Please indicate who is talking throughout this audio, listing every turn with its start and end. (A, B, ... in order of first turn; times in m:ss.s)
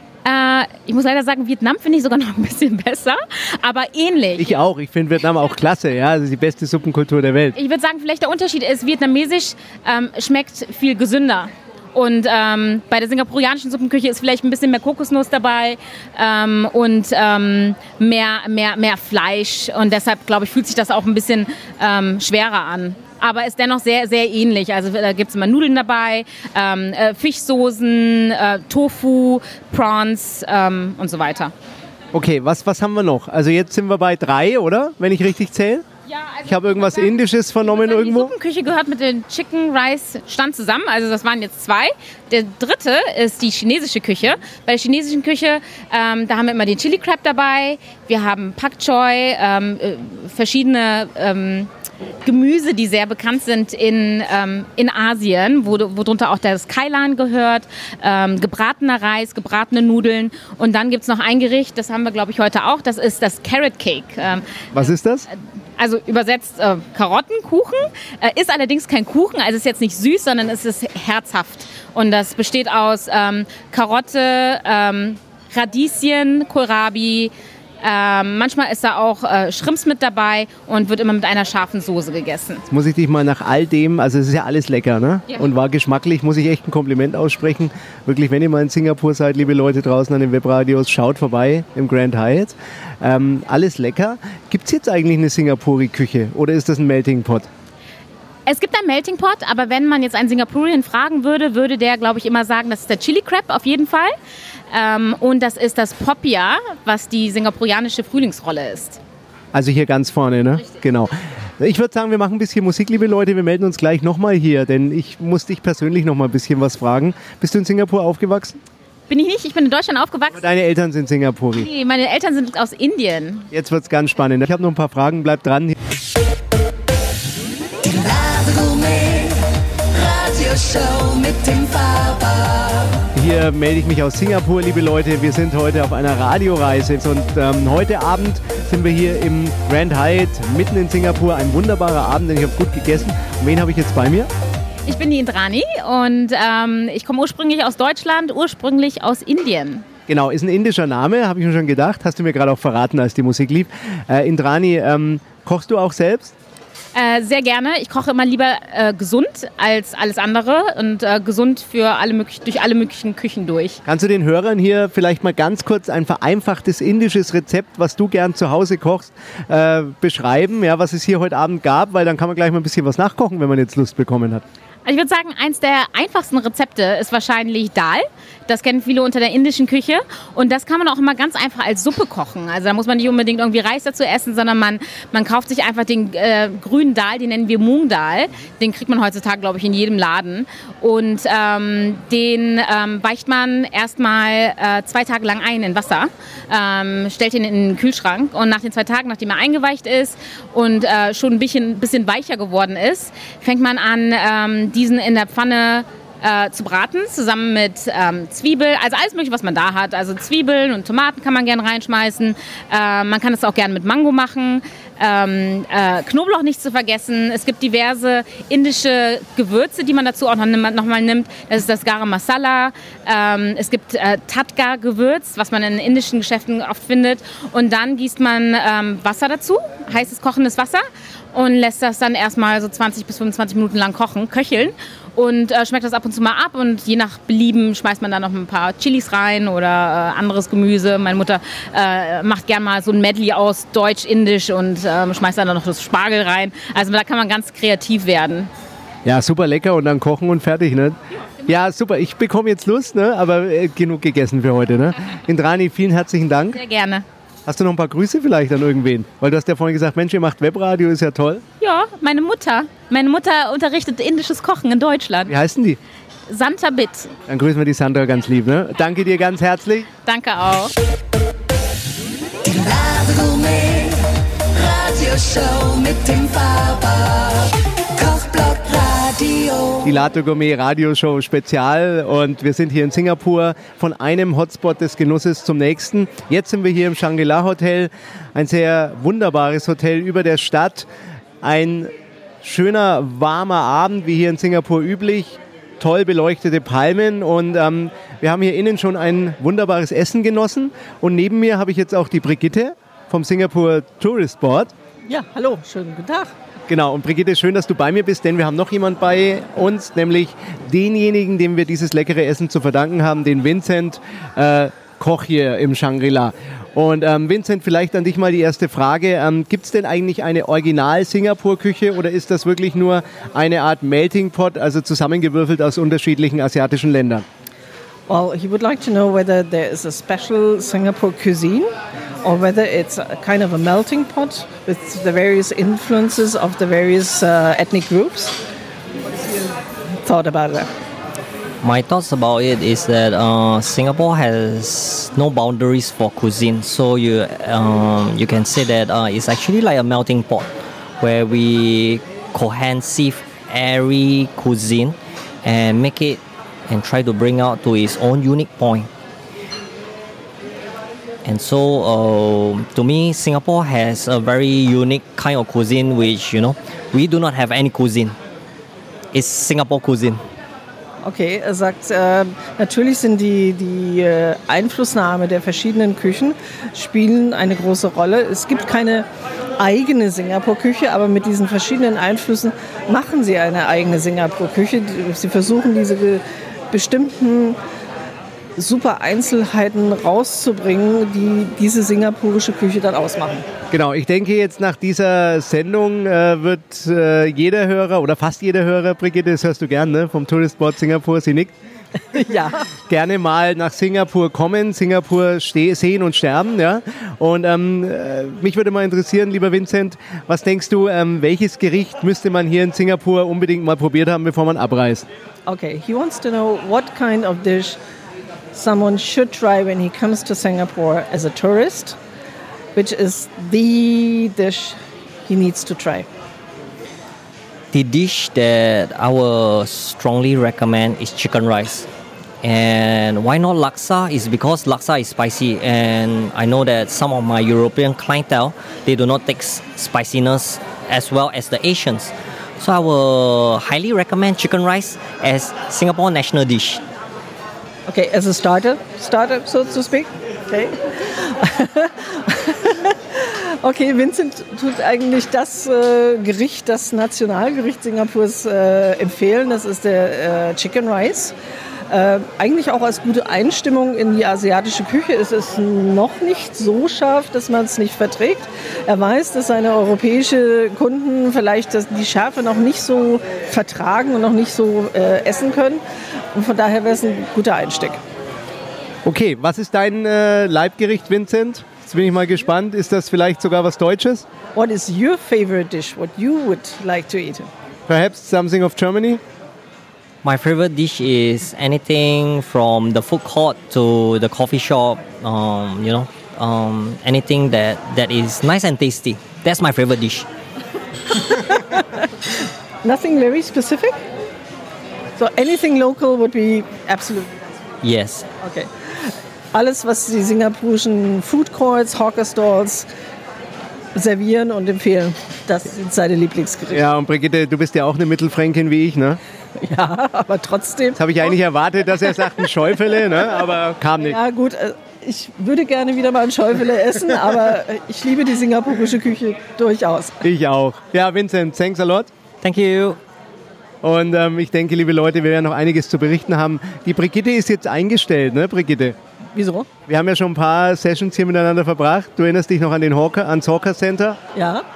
0:00.2-0:04.6 A
0:04.4-0:07.6 B
0:07.6-0:31.5 A
0:32.1-0:35.8 B
0:36.1-0:51.7 A
0:36.4-0:38.3 B
0:52.2-1:04.9 A
1:04.7-1:05.3 B
1:05.8-1:22.6 A
1:22.7-1:37.5 B
1:38.4-1:44.1 A
1:44.7-1:49.0 A
1:49.5-1:58.6 B
1:59.1-2:00.4 A
2:00.3-2:01.7 B
2:01.5-2:03.5 A
2:03.5-2:05.8 B
2:07.2-2:13.1 C
2:13.1-2:24.3 B
2:24.9-2:29.8 A
2:30.1-2:36.3 B
2:36.9-2:43.8 A
2:43.8-2:54.4 B
2:54.8-4:08.5 A
4:09.0-4:16.6 B
4:16.6-4:17.0 A
4:17.4-4:21.4 B
4:21.6-4:25.3 A
4:25.3-4:25.8 B
4:26.3-4:27.1 A
4:27.3-4:29.9 B
4:30.0-4:30.7 A
4:31.5-4:39.9 C
4:39.8-4:50.9 B
4:51.4-5:04.7 B
5:05.1-5:06.3 D
5:06.7-5:27.2 B
5:28.1-5:31.7 D
5:32.2-5:38.4 D
5:40.0-5:40.7 D
5:41.6-5:58.9 E
6:01.2-6:08.2 E
6:09.1-6:10.2 E
6:11.0-6:19.0 D
6:19.6-6:27.6 D
6:28.6-6:33.4 D
6:33.7-6:41.5 B
6:42.1-6:42.6 D
6:42.9-6:55.1 B
6:55.5-6:57.8 D
6:58.5-7:02.0 D
7:02.7-7:06.1 D
7:07.7-7:11.9 E
7:12.4-7:26.8 E
7:27.9-7:41.3 D
7:41.9-7:55.8 D
7:56.3-7:58.0 D
7:59.0-8:04.2 B
8:04.6-8:07.5 D
8:07.9-8:09.2 B
8:10.2-8:20.3 E
8:21.1-8:22.1 D
8:22.8-8:24.0 D
8:25.2-8:27.4 D
8:27.8-8:28.3 E
8:28.4-8:32.9 D
8:33.9-8:36.8 D
8:36.7-8:39.2 B
8:39.6-8:41.0 D
8:41.0-8:44.2 B
8:44.0-8:50.2 D
8:50.2-8:52.1 B
8:52.4-8:53.0 E
8:53.8-8:59.0 B
8:59.3-8:59.7 D
8:59.9-9:04.2 B
9:04.3-9:04.6 D